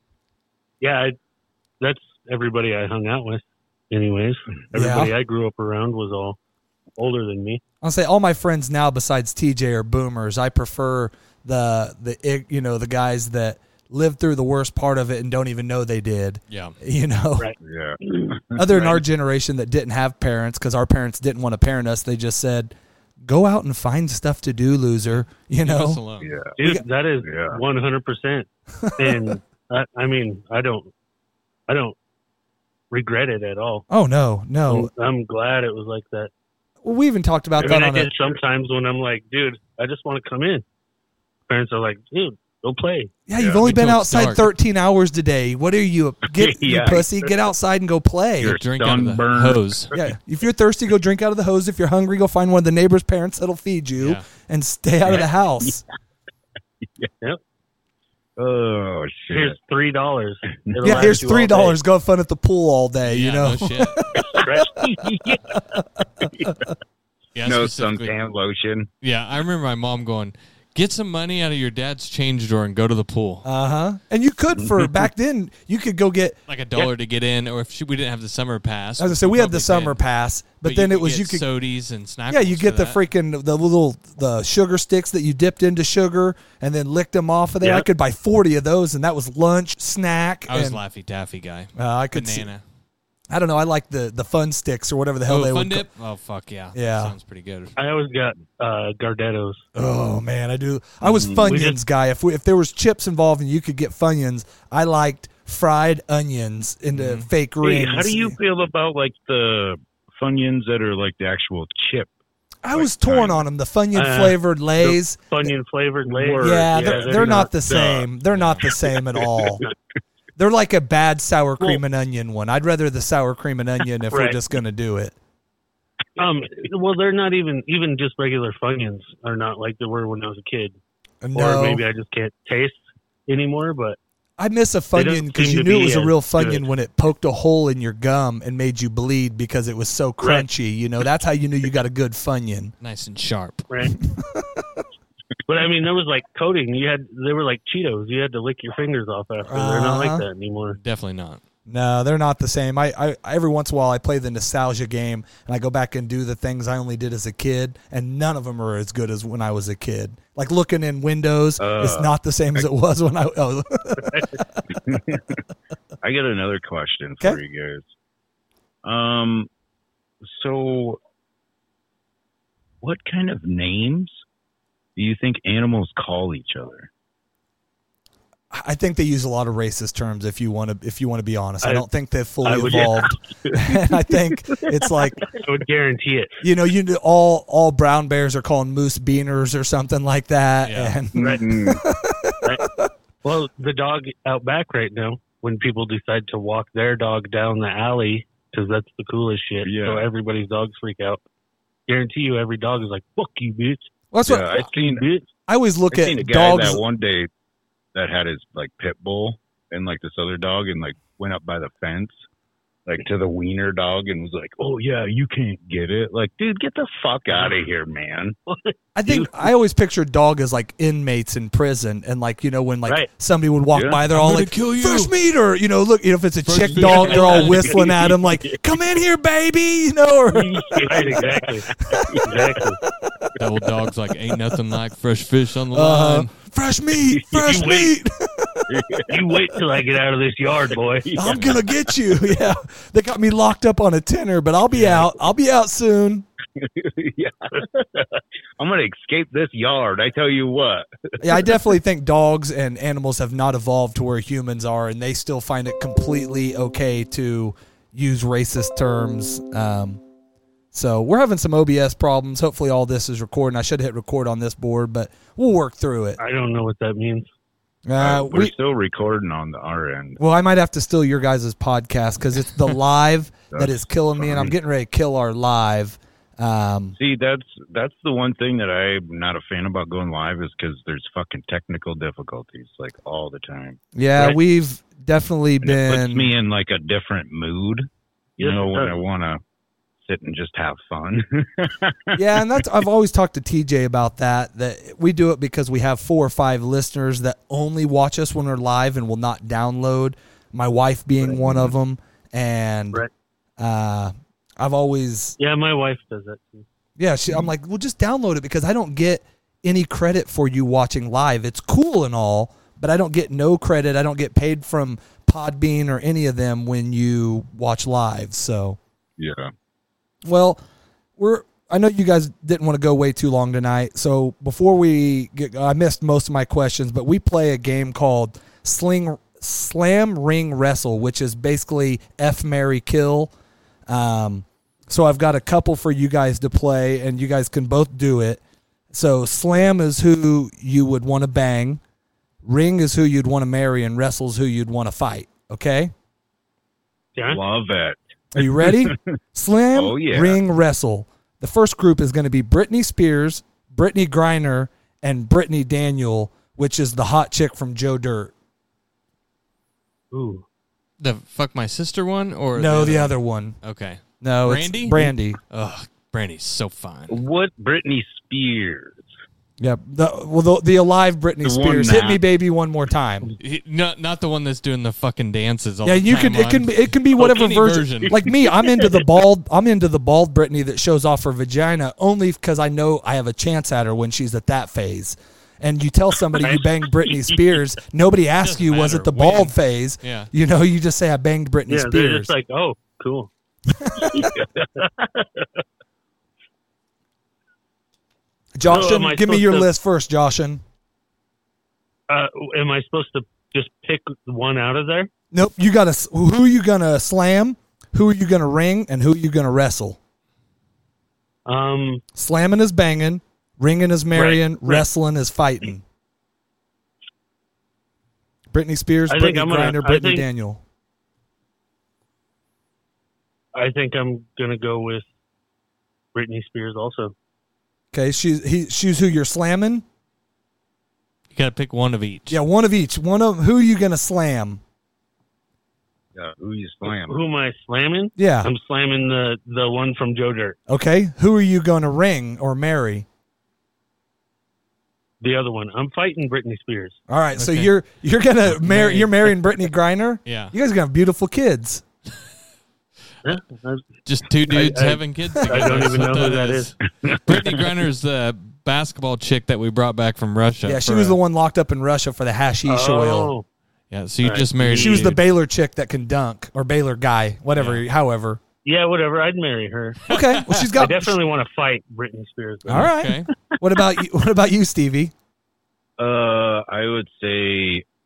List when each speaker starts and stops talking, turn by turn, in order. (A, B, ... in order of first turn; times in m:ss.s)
0:00.8-0:01.2 A
0:01.8-0:06.4 A
0:04.7-0:05.1 B
0:07.0-0:07.6 A
0:07.8-0:17.5 B
0:16.5-0:16.7 C
0:17.6-0:19.0 D
0:18.6-0:26.0 B
0:25.6-0:26.3 C
0:26.2-0:26.6 D
0:26.6-0:30.9 A
0:27.2-0:27.6 D
0:28.8-0:29.3 B
0:31.7-0:32.0 A
0:32.9-0:33.8 A
0:33.9-0:34.9 B
0:34.7-0:36.3 A
0:36.8-0:38.1 B
0:37.6-0:37.8 D
0:37.6-0:40.6 A
0:41.5-0:43.1 A
0:43.3-0:48.6 B
0:43.3-0:43.6 D
0:43.6-0:44.5 C
0:46.3-0:47.1 D
0:48.4-0:50.1 D
0:48.5-0:49.9 C
0:49.9-0:55.8 B
0:58.4-0:59.6 D
0:59.3-1:01.8 A
1:00.7-1:01.1 D
1:00.8-1:04.2 B
1:03.0-1:04.0 C
1:04.2-1:05.4 D
1:04.4-1:05.0 A
1:05.5-1:06.7 B
1:06.2-1:06.5 D
1:07.3-1:08.1 C
1:07.4-1:08.9 D
1:09.0-1:13.5 C
1:13.4-1:16.4 B
1:16.5-1:20.0 C
1:19.0-1:21.4 B
1:20.6-1:23.0 C
1:22.3-1:30.8 B
1:30.5-1:32.6 C
1:31.8-1:32.5 B
1:33.3-1:35.8 B
1:35.3-1:37.7 C
1:36.7-1:37.1 B
1:37.8-1:39.6 A
1:39.7-1:48.4 B
1:41.0-1:41.6 D
1:41.5-1:41.8 A
1:46.9-1:47.3 C
1:47.6-1:52.1 D
1:52.6-1:55.2 B
1:52.7-1:53.4 D
1:53.9-1:57.9 A
1:56.0-1:58.0 D
1:56.4-1:59.6 B
1:58.3-1:58.7 C
2:00.4-2:05.1 B
2:04.1-2:04.4 A
2:06.2-2:10.8 A
2:11.2-2:11.8 B
2:11.3-2:14.0 A
2:14.4-2:22.7 B
2:14.9-2:16.6 A
2:22.8-2:23.7 C
2:23.7-2:23.9 A
2:24.0-2:24.8 B
2:25.5-2:30.8 A
2:29.4-2:30.2 B
2:30.8-2:31.4 C
2:31.7-2:44.2 B
2:41.6-2:42.6 D
2:44.0-2:44.4 A
2:44.7-2:45.4 D
2:46.0-2:47.8 D
2:48.8-2:49.5 D
2:50.2-2:51.0 D
2:52.8-2:54.2 D
2:55.0-2:56.9 D
2:58.5-3:05.3 B
3:02.4-3:03.6 A
3:05.3-3:06.3 A
3:06.4-3:12.9 B
3:10.6-3:11.0 C
3:11.1-3:11.8 D
3:13.2-3:21.2 A
3:19.6-3:20.1 D
3:21.9-3:23.9 A
3:24.1-3:24.6 B
3:24.2-3:25.0 D
3:24.5-3:25.2 A
3:25.5-3:26.8 B
3:25.9-3:27.3 D
3:27.9-3:32.1 D
3:32.8-3:38.4 D
3:38.5-3:39.3 A
3:38.9-3:50.7 B
3:43.7-3:44.0 D
3:44.1-3:45.1 C
3:46.4-3:47.7 C
3:46.9-3:47.8 A
3:48.0-3:48.5 D
3:50.3-3:52.2 D
3:50.8-3:51.7 A
3:51.8-3:52.4 B
3:52.2-3:52.8 A
3:53.4-3:56.3 C
3:55.7-3:58.7 B
3:57.1-3:57.7 D
3:57.4-3:57.9 A
3:58.7-3:59.5 D
3:59.1-4:01.2 A
4:00.7-4:01.8 D
4:01.2-4:06.2 B
4:04.7-4:05.1 C
4:06.6-4:08.0 D
4:08.6-4:11.6 D
4:11.2-4:20.0 B
4:20.7-4:26.2 B
4:26.2-4:27.3 A
4:27.8-4:28.5 B
4:28.0-4:30.2 D
4:30.2-4:37.0 B
4:33.5-4:34.5 D
4:37.0-4:43.8 D
4:43.9-4:46.3 B
4:45.6-4:47.9 D
4:48.4-4:49.4 D
4:48.4-4:49.0 A
4:50.0-4:52.6 D
4:52.1-5:03.0 B
5:01.2-5:01.7 D
5:03.6-5:05.4 B
5:05.4-5:06.6 A
5:07.0-5:18.8 B
5:19.2-5:19.5 D
5:20.2-5:20.6 B
5:21.2-5:33.3 B
5:33.9-5:38.4 B
5:38.9-5:41.8 B
5:42.4-5:45.9 B
5:47.2-5:47.4 A
5:47.2-5:49.2 D
5:48.3-5:58.3 B
5:49.7-5:50.4 D
6:00.1-6:00.4 A
6:01.0-6:07.2 C
6:02.5-6:03.6 B
6:04.2-6:05.4 B
6:07.1-6:09.1 D
6:09.6-6:13.3 B
6:11.4-6:12.2 D
6:13.4-6:18.3 C
6:15.8-6:32.3 B
6:26.4-6:27.4 A
6:28.4-6:30.3 C
6:31.7-6:33.3 A
6:33.7-6:34.3 B
6:34.1-6:35.6 A
6:34.2-6:34.7 D
6:38.5-6:40.6 B
6:38.7-6:39.7 A
6:42.1-6:45.1 A
6:45.3-6:50.0 B
6:51.4-6:52.0 A
6:52.1-6:55.8 B
6:54.1-6:54.8 A
6:58.5-7:00.6 B
6:59.1-7:00.2 A
7:03.5-7:05.1 A
7:06.1-7:07.1 A
7:07.9-7:09.8 B
7:11.3-7:12.4 C
7:12.3-7:14.6 B
7:16.2-7:17.2 D
7:16.9-7:20.6 A
7:18.2-7:18.5 B
7:20.7-7:23.0 B
7:25.2-7:27.0 A
7:27.1-7:31.8 B
7:27.4-7:27.7 C
7:28.5-7:29.3 C
7:30.2-7:30.5 C
7:33.2-7:33.9 A
7:34.0-7:41.2 C
7:34.5-7:36.7 A
7:37.0-7:37.4 D
7:40.6-7:43.3 B
7:42.7-7:43.4 A
7:43.9-7:45.2 C
7:44.2-7:45.1 A
7:44.7-7:48.4 B
7:47.6-7:47.8 C
7:48.6-7:50.0 A
7:50.1-7:51.2 B
7:50.1-7:50.7 C
7:50.8-7:52.9 A
7:52.7-7:55.1 B
7:52.7-7:53.3 C
7:56.0-7:57.8 D